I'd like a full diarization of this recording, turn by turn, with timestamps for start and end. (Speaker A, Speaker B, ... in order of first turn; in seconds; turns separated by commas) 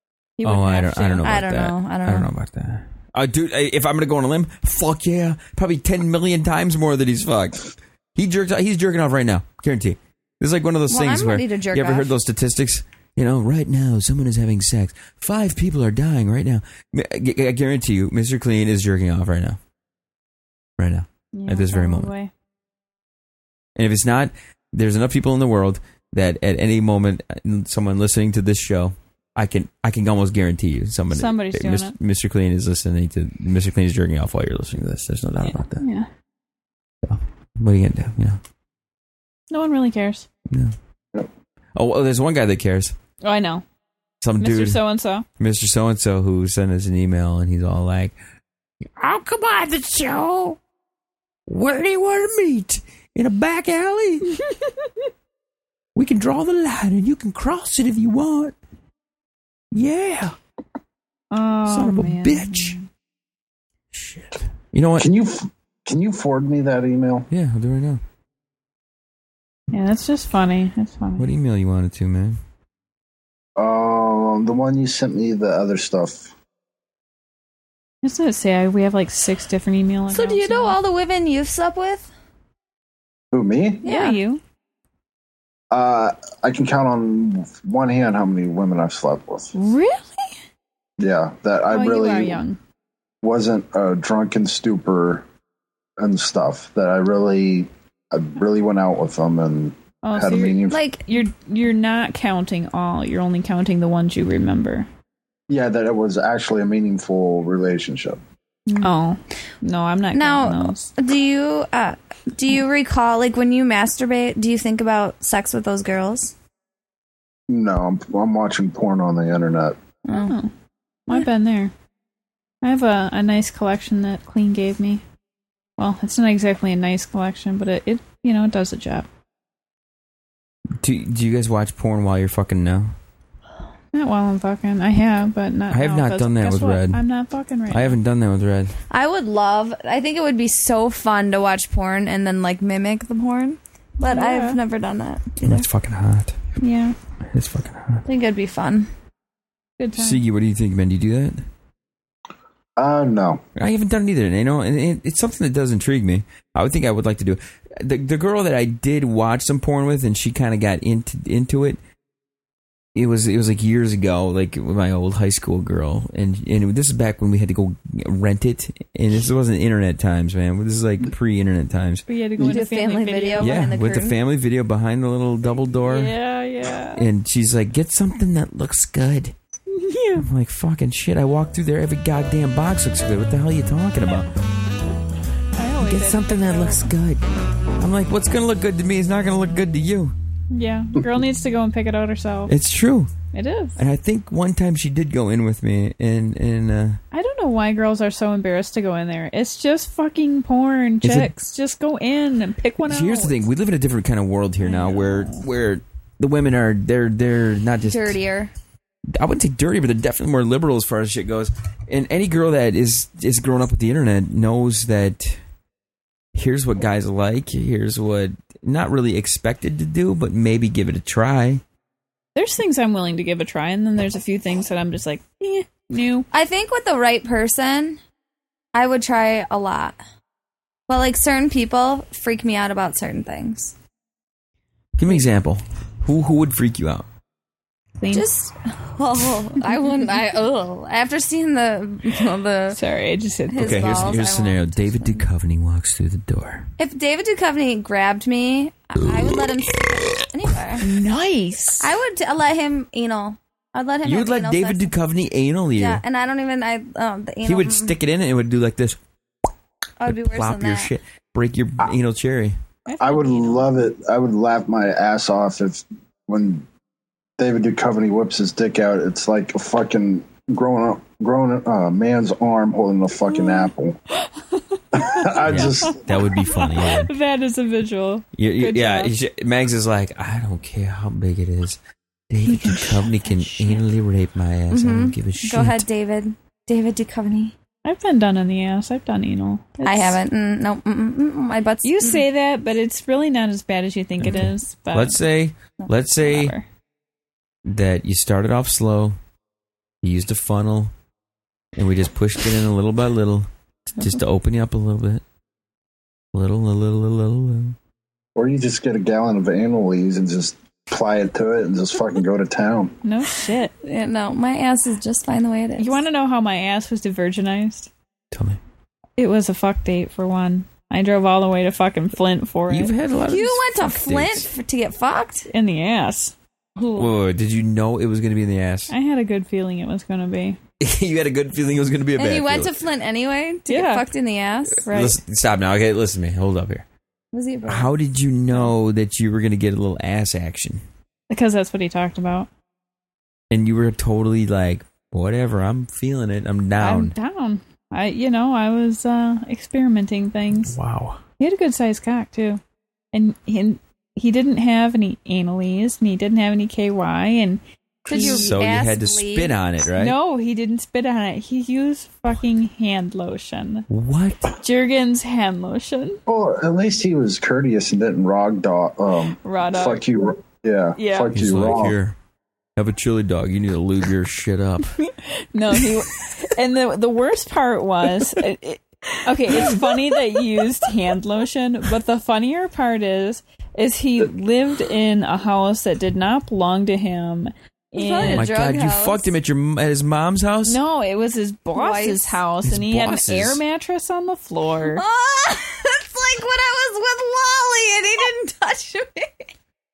Speaker A: 0.4-1.3, Speaker B: 0.4-19.6, Speaker C: 1.2-2.3, Speaker C: 10.9-12.1, Speaker B: 20.8-22.1, Speaker A: 21.3-22.3, Speaker B: 23.8-35.8, Speaker A: 31.1-31.9, Speaker A: 35.5-36.1, Speaker B: 37.0-38.4, Speaker A: 39.5-40.3, Speaker B: 40.5-40.7, Speaker B: 41.7-43.0, Speaker A: 43.2-43.6, Speaker B: 44.2-44.8, Speaker A: 44.4-45.2, Speaker B: 45.4-48.1, Speaker B: 49.0-50.6, Speaker B: 51.5-54.4, Speaker A: 54.3-54.9, Speaker B: 55.9-58.5, Speaker B: 59.7-60.4, Speaker A: 61.3-62.9, Speaker B: 61.6-62.8, Speaker B: 63.9-65.1, Speaker D: 65.0-67.3, Speaker B: 67.3-68.0, Speaker A: 69.7-71.3, Speaker B: 71.2-72.4, Speaker D: 73.6-76.3, Speaker A: 78.0-80.8, Speaker C: 80.1-82.1, Speaker D: 83.3-83.8, Speaker C: 83.8-84.2, Speaker A: 83.8-84.4, Speaker D: 85.7-89.5, Speaker A: 89.5-90.3, Speaker D: 91.0-92.4, Speaker A: 91.7-92.6, Speaker D: 93.2-95.2, Speaker D: 96.0-100.8, Speaker A: 100.0-104.9, Speaker C: 100.7-101.1, Speaker D: 105.5-108.2, Speaker A: 108.8-110.9, Speaker C: 110.1-116.3, Speaker D: 117.5-119.8, Speaker C: 120.0-120.3, Speaker A: 120.1-120.5, Speaker A: 121.1-121.7, Speaker A: 122.6-125.0, Speaker A: 125.8-129.1, Speaker B: 130.8-132.9, Speaker A: 133.9-138.0, Speaker B: 135.7-137.0, Speaker B: 137.7-138.8, Speaker C: 138.9-145.7, Speaker A: 144.0-144.6, Speaker B: 145.4-146.4, Speaker A: 146.6-146.9, Speaker B: 147.2-148.0, Speaker C: 148.0-148.9, Speaker A: 149.8-150.2, Speaker B: 149.9-151.5, Speaker D: 152.8-153.4, Speaker B: 153.6-161.8, Speaker B: 162.9-172.1, Speaker A: 172.1-173.6, Speaker C: 172.4-174.2, Speaker B: 173.4-176.1, Speaker A: 175.8-177.1, Speaker B: 176.9-179.3, Speaker A: 179.7-180.2, Speaker B: 180.2-184.3, Speaker A: 185.6-186.9, Speaker B: 185.8-187.2, Speaker B: 187.8-190.2, Speaker A: 190.5-192.5, Speaker B: 192.5-193.1, Speaker A: 193.3-193.8, Speaker B: 193.8-197.0, Speaker A: 197.1-203.4, Speaker B: 201.0-201.4, Speaker B: 202.8-208.2, Speaker A: 204.6-205.4, Speaker C: 207.8-208.5, Speaker B: 209.2-215.4, Speaker B: 216.3-221.6, Speaker A: 222.3-226.3, Speaker C: 226.3-228.0, Speaker C: 228.7-230.0, Speaker C: 230.9-233.7, Speaker B: 235.0-237.1, Speaker A: 238.0-238.3, Speaker C: 238.1-242.8, Speaker A: 242.7-244.2, Speaker C: 243.5-245.2, Speaker B: 243.5-246.7, Speaker C: 246.8-250.8, Speaker B: 249.1-249.4, Speaker A: 250.8-251.9, Speaker C: 251.8-254.9, Speaker B: 254.0-256.0, Speaker C: 255.8-258.0, Speaker B: 257.4-259.0, Speaker C: 260.0-260.9, Speaker B: 260.1-262.6, Speaker A: 262.9-263.7, Speaker D: 263.0-266.6, Speaker D: 267.4-274.0, Speaker A: 273.3-279.1, Speaker D: 274.9-276.0, Speaker B: 275.4-277.1, Speaker B: 278.4-281.8, Speaker B: 282.3-285.9, Speaker A: 282.4-283.8, Speaker C: 284.7-287.5, Speaker A: 287.8-290.2, Speaker C: 289.8-292.2, Speaker A: 291.8-295.2, Speaker B: 294.2-296.6, Speaker A: 296.2-296.6, Speaker B: 297.6-299.2, Speaker B: 300.0-300.9, Speaker B: 301.8-305.2, Speaker B: 306.3-307.8, Speaker D: 308.4-312.9, Speaker A: 313.0-313.7, Speaker C: 313.8-316.0, Speaker A: 315.8-317.9, Speaker B: 318.3-318.6, Speaker A: 319.2-322.9, Speaker B: 322.7-324.5, Speaker C: 323.3-325.5, Speaker A: 325.5-326.3, Speaker C: 326.8-327.1, Speaker B: 326.9-328.9, Speaker A: 328.9-330.6, Speaker B: 330.8-332.7, Speaker C: 332.2-334.8, Speaker A: 333.7-334.0, Speaker B: 334.8-336.9, Speaker A: 334.9-335.1, Speaker C: 337.3-337.9, Speaker B: 337.6-340.8, Speaker A: 341.3-342.5, Speaker B: 343.5-347.1, Speaker A: 346.8-350.8, Speaker B: 350.6-351.2, Speaker A: 351.4-352.6, Speaker A: 353.1-358.6, Speaker C: 358.1-359.5, Speaker B: 358.1-360.1, Speaker A: 360.0-363.9, Speaker B: 363.9-364.5, Speaker A: 364.6-366.2, Speaker D: 366.3-371.9, Speaker A: 369.4-370.0, Speaker A: 371.0-371.4, Speaker B: 371.3-372.2, Speaker B: 372.8-374.9, Speaker A: 375.0-388.5, Speaker C: 387.9-389.3, Speaker B: 388.2-390.8, Speaker A: 390.6-395.0, Speaker C: 391.7-392.4, Speaker B: 392.6-393.6, Speaker C: 394.8-399.5